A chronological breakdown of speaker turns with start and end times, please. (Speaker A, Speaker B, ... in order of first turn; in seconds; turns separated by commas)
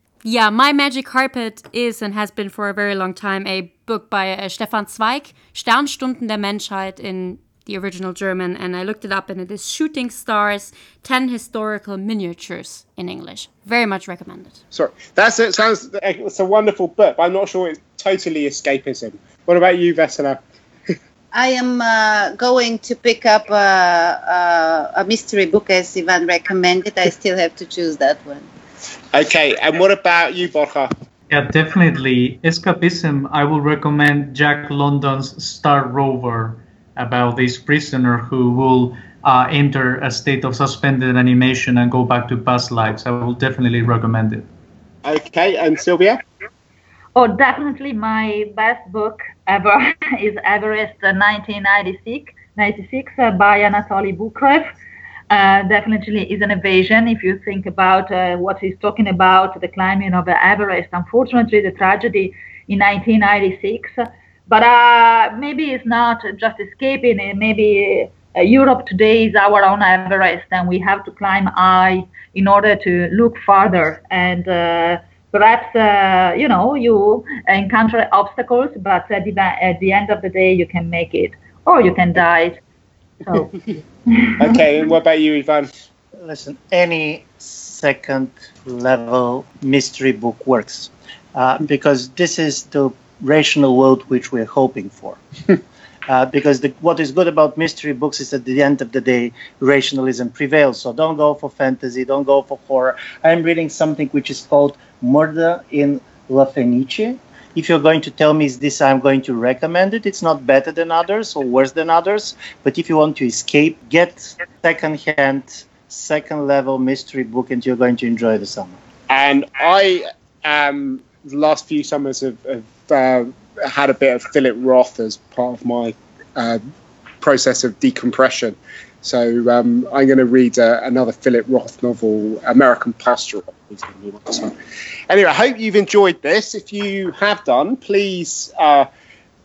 Speaker A: 0.2-14.6, Speaker B: 14.7-20.4, Speaker C: 21.3-28.5, Speaker B: 29.1-30.9, Speaker D: 31.3-44.5, Speaker B: 45.0-46.2, Speaker E: 47.1-54.7, Speaker E: 55.3-63.9, Speaker E: 64.5-82.6, Speaker E: 83.3-83.5, Speaker B: 84.4-85.7, Speaker F: 86.2-95.2, Speaker F: 96.1-118.8, Speaker B: 119.1-126.6, Speaker B: 127.2-134.6, Speaker B: 135.1-138.9